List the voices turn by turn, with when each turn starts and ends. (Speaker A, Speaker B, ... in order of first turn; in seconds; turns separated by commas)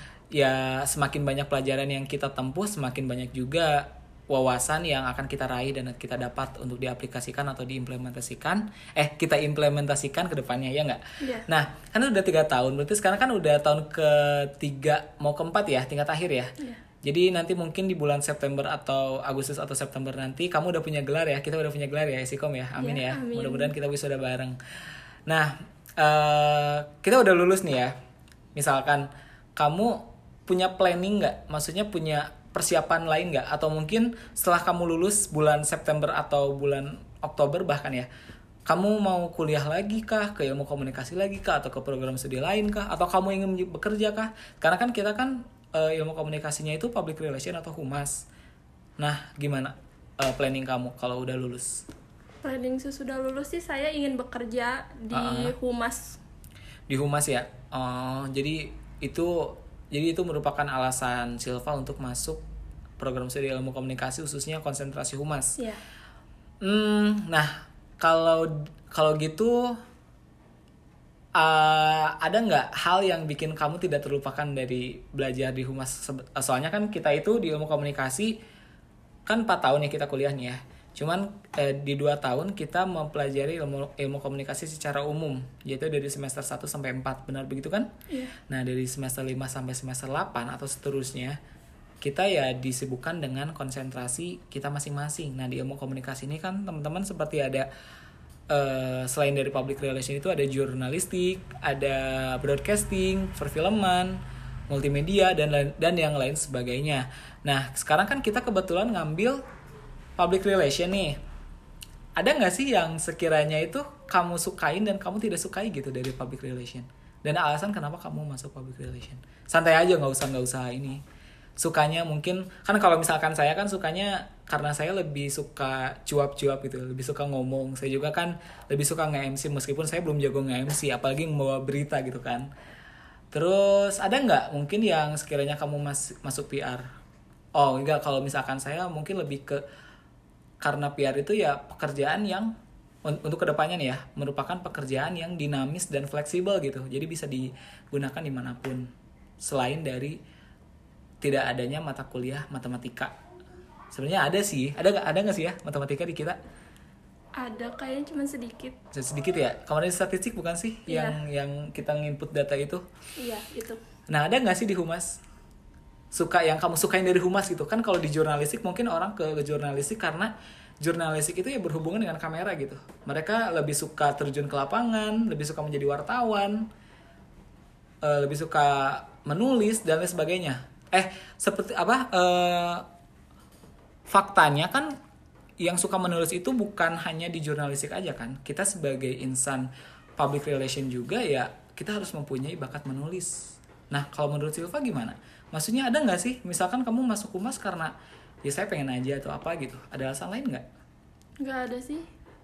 Speaker A: 0.3-24.6, Speaker B: 11.2-11.4, Speaker B: 22.8-23.7, Speaker A: 25.3-27.9, Speaker A: 28.6-38.1, Speaker A: 38.7-48.3, Speaker A: 49.0-51.8, Speaker B: 52.4-56.2, Speaker A: 55.1-55.5, Speaker A: 56.9-62.4, Speaker A: 63.0-65.6, Speaker A: 66.6-69.8, Speaker A: 71.4-78.3, Speaker A: 79.3-87.9, Speaker A: 88.5-91.4, Speaker A: 92.0-97.7, Speaker A: 98.5-109.4, Speaker A: 110.2-111.2, Speaker A: 112.2-121.0, Speaker A: 121.6-132.5, Speaker A: 133.3-136.8, Speaker A: 137.6-139.6, Speaker A: 140.6-142.5, Speaker A: 143.1-148.9, Speaker A: 149.4-150.2, Speaker A: 151.2-153.1, Speaker A: 153.9-156.4, Speaker B: 157.4-158.8, Speaker A: 158.9-162.8, Speaker B: 160.9-161.2, Speaker B: 163.2-163.8, Speaker A: 164.1-165.2, Speaker A: 166.1-176.7, Speaker A: 178.0-182.8, Speaker A: 184.1-184.9, Speaker A: 185.6-197.9, Speaker A: 198.4-200.7, Speaker B: 201.4-202.1